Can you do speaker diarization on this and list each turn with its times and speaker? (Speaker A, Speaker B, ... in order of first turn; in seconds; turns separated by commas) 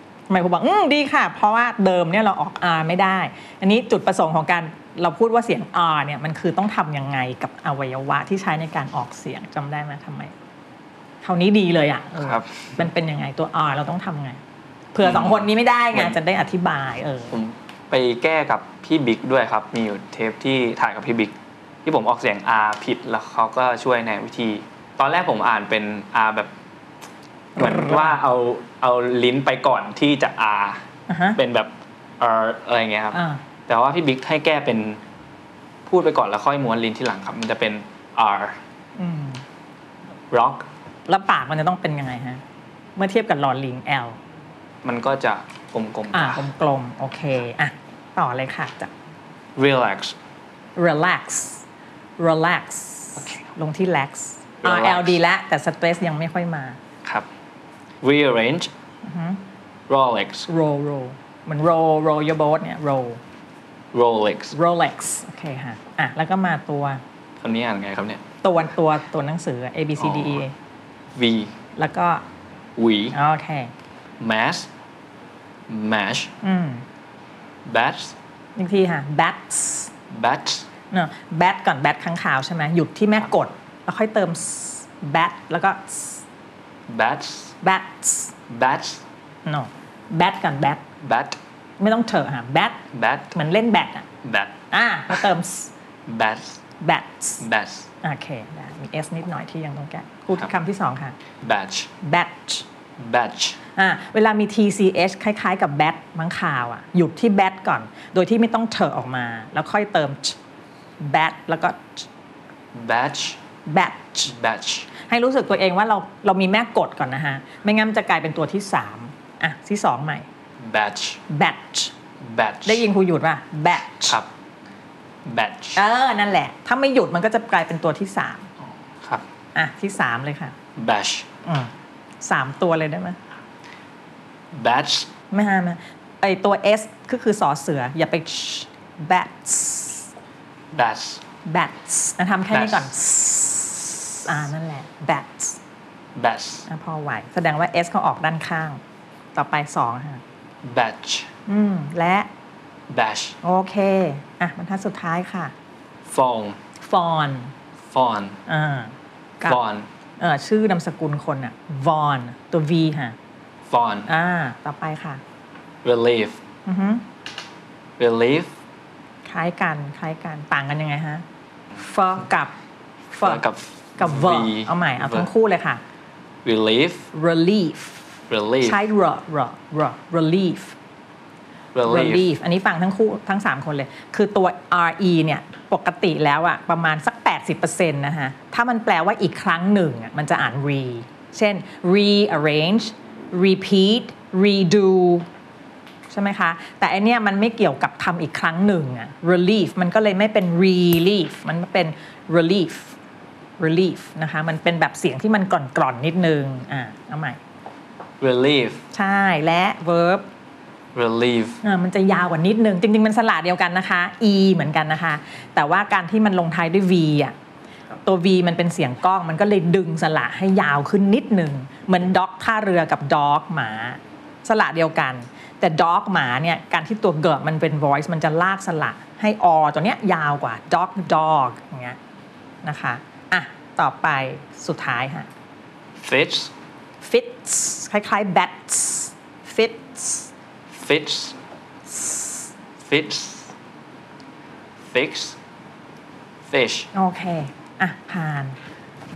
Speaker A: 0.3-10.3, Speaker A: 11.2-14.4, Speaker B: 12.2-12.7, Speaker A: 14.9-17.3, Speaker B: 15.0-16.2, Speaker B: 17.3-21.3, Speaker B: 21.8-26.5, Speaker A: 27.6-28.1, Speaker B: 27.6-30.8, Speaker A: 31.1-31.4, Speaker B: 31.4-35.0, Speaker A: 33.1-33.4, Speaker B: 35.9-38.6, Speaker A: 39.0-39.4, Speaker B: 40.3-40.6, Speaker A: 41.1-42.4, Speaker A: 43.0-44.2, Speaker B: 44.8-46.4, Speaker A: 46.1-48.9, Speaker B: 49.5-50.1, Speaker A: 50.8-51.6, Speaker A: 52.2-56.8, Speaker B: 54.6-55.2, Speaker B: 58.0-58.7, Speaker A: 59.0-59.4, Speaker B: 59.9-60.5, Speaker A: 60.5-63.2, Speaker B: 63.9-64.5, Speaker A: 64.5-67.0, Speaker B: 67.4-68.2, Speaker A: 68.4-70.5, Speaker B: 70.0-70.4, Speaker B: 71.2-71.5, Speaker A: 71.8-72.2, Speaker B: 72.8-73.2, Speaker A: 73.1-73.7, Speaker B: 74.2-74.7, Speaker B: 75.7-76.3, Speaker A: 76.4-76.8, Speaker B: 77.7-78.1, Speaker A: 78.6-79.9, Speaker B: 80.1-80.7, Speaker A: 80.9-86.2, Speaker B: 86.9-87.5, Speaker A: 87.6-88.3, Speaker B: 88.5-89.0, Speaker A: 89.4-90.8, Speaker B: 91.0-91.4, Speaker A: 91.8-92.8, Speaker B: 92.9-93.3, Speaker A: 93.3-94.0, Speaker B: 94.2-94.6, Speaker A: 94.7-95.7, Speaker B: 96.1-96.6, Speaker A: 96.8-97.4, Speaker B: 97.4-97.9, Speaker A: 98.0-101.2, Speaker B: 101.4-101.9, Speaker A: 102.0-102.6, Speaker B: 103.0-103.6, Speaker A: 103.8-110.4, Speaker A: 111.0-112.1, Speaker B: 112.7-113.4, Speaker A: 113.7-114.3, Speaker B: 114.3-114.9, Speaker A: 115.1-120.3, Speaker B: 120.6-121.2, Speaker A: 121.3-121.9, Speaker B: 122.2-122.8, Speaker A: 122.6-124.2, Speaker B: 125.2-125.8, Speaker A: 125.8-128.5, Speaker A: 129.5-130.5, Speaker B: 130.8-131.3, Speaker A: 131.4-131.7, Speaker A: 132.2-133.2, Speaker B: 134.5-135.1, Speaker A: 135.3-140.1, Speaker B: 140.7-141.2, Speaker A: 141.4-145.6, Speaker B: 142.5-142.9, Speaker B: 146.2-146.7, Speaker A: 146.7-148.8, Speaker A: 149.3-150.2, Speaker B: 150.6-151.3, Speaker A: 151.5-152.3, Speaker B: 152.9-153.4, Speaker A: 153.4-155.5, Speaker B: 156.1-156.6, Speaker A: 156.8-157.5, Speaker B: 157.9-158.4, Speaker A: 158.5-159.6, Speaker B: 159.4-159.9, Speaker A: 160.2-163.2, Speaker B: 163.7-164.1, Speaker A: 164.1-165.2, Speaker B: 165.8-166.4, Speaker A: 166.7-167.0, Speaker B: 168.0-168.5, Speaker A: 169.2-171.2, Speaker A: 171.8-172.5, Speaker A: 173.1-173.4, Speaker B: 173.2-175.3, Speaker A: 174.0-175.8, Speaker B: 176.4-177.1, Speaker A: 177.1-178.0, Speaker B: 178.3-178.8, Speaker A: 178.6-180.8, Speaker B: 181.7-182.3, Speaker A: 181.8-195.3, Speaker A: 196.1-202.9, Speaker A: 203.6-207.4, Speaker B: 208.2-208.8, Speaker A: 208.9-210.2, Speaker B: 210.9-211.6, Speaker A: 211.6-217.3, Speaker A: 218.0-232.0, Speaker A: 232.6-235.3, Speaker B: 236.0-236.5, Speaker A: 237.0-240.3, Speaker B: 240.7-241.3, Speaker A: 241.9-242.3, Speaker B: 242.8-243.5, Speaker B: 244.8-245.4, Speaker B: 246.4-246.9, Speaker A: 246.9-248.6